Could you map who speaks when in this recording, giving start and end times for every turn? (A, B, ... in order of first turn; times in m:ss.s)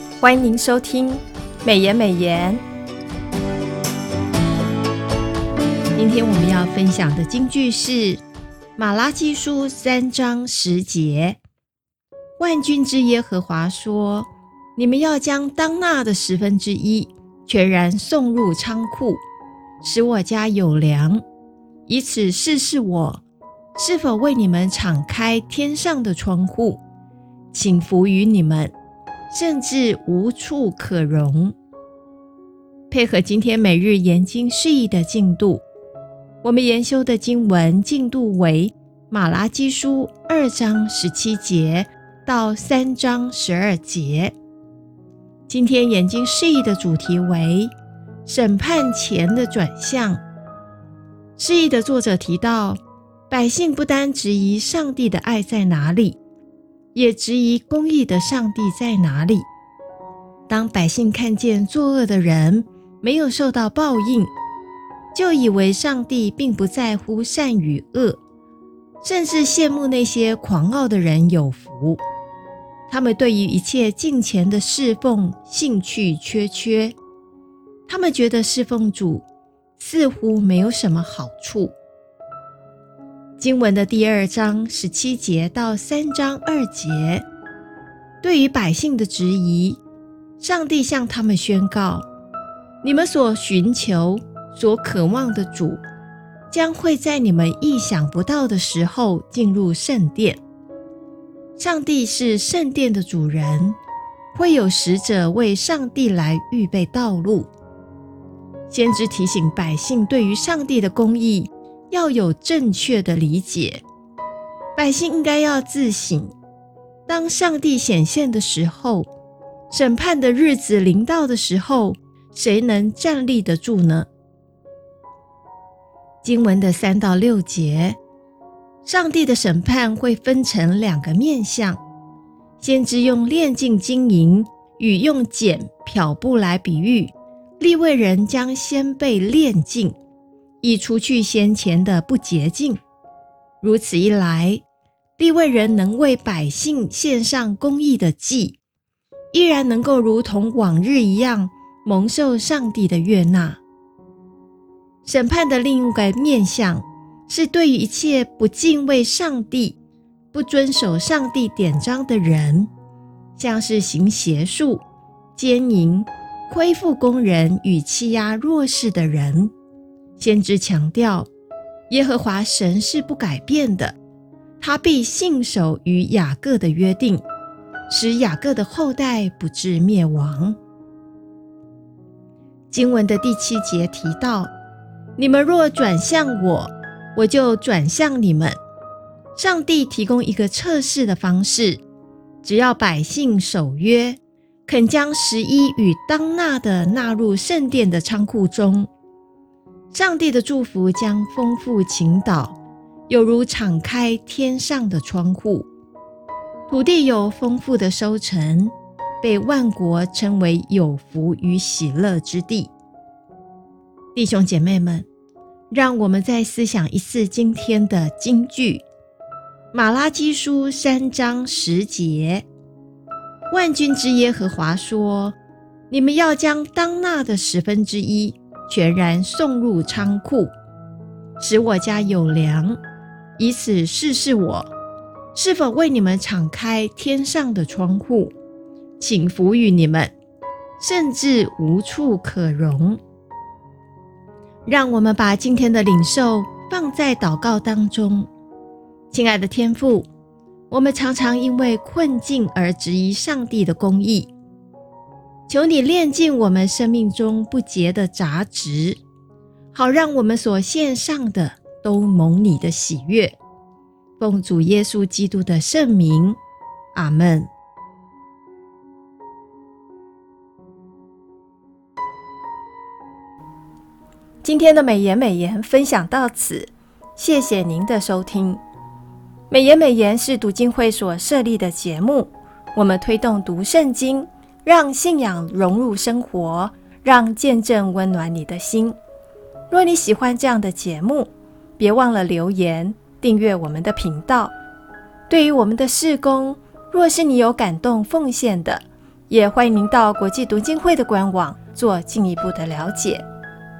0:00.2-0:02.6 A
0:05.9-0:08.2 A
0:08.8-0:11.4 A
0:12.4-0:19.2 A
0:19.8-0:21.2 A
0:21.9-0:23.2 A
0:23.8-0:26.8 A
0:27.5-0:28.7 A
0:29.3-0:31.5 A
0:32.9-0:35.6 A
0:36.4-0:44.3 A
0:45.5-0:47.7 A
0:48.2-0:50.2 A
0:51.4-0:56.2 A
0:56.9-0:59.5 A
1:00.5-1:04.3 A
1:05.1-1:08.2 A
1:09.0-1:12.0 A
1:12.9-1:17.0 A
1:17.9-1:19.2 A
1:19.8-1:21.8 A
1:23.4-1:27.2 A
1:28.2-1:29.8 A
1:30.4-1:32.0 A
1:32.8-1:35.8 A
1:36.5-1:40.4 A
1:41.6-1:43.8 A
1:44.3-1:47.5 A
1:48.7-1:53.8 A
1:54.8-1:56.3 A
1:57.1-1:59.1 A
1:59.7-2:04.1 A
2:06.2-2:08.0 A
2:08.8-2:11.8 A
2:12.6-2:20.0 A
2:20.6-2:22.8 A
2:23.6-2:24.6 A
2:25.2-2:28.6 A
2:29.3-2:33.6 A
2:35.0-2:39.8 A
2:40.3-2:42.7 A
2:43.4-2:44.8 A
2:45.3-2:49.5 A
2:50.2-2:51.3 A
2:51.9-2:54.0 A
2:54.6-2:57.2 A
2:57.9-3:00.6 A
3:02.7-3:04.5 A
3:05.2-3:08.6 A
3:09.4-3:11.8 A
3:12.4-3:18.9 A
3:19.9-3:22.6 A
3:23.1-3:25.7 A
3:26.7-3:32.7 A
3:34.1-3:35.1 A
3:35.7-3:38.8 A
3:39.7-3:42.4 A
3:43.5-3:45.4 A
3:45.9-3:50.5 A
3:51.4-3:52.8 A
3:53.4-3:54.7 A
3:55.3-3:58.3 A
3:59.0-4:00.1 A
4:00.8-4:03.0 A
4:04.6-4:08.3 A
4:09.1-4:10.1 A
4:10.7-4:14.3 A
4:15.5-4:19.0 A
4:19.7-4:23.4 A
4:24.2-4:26.4 A
4:26.9-4:27.5 A
4:34.4-4:38.6 A
4:39.5-4:49.0 A
4:49.7-4:54.5 A
4:55.3-5:03.2 A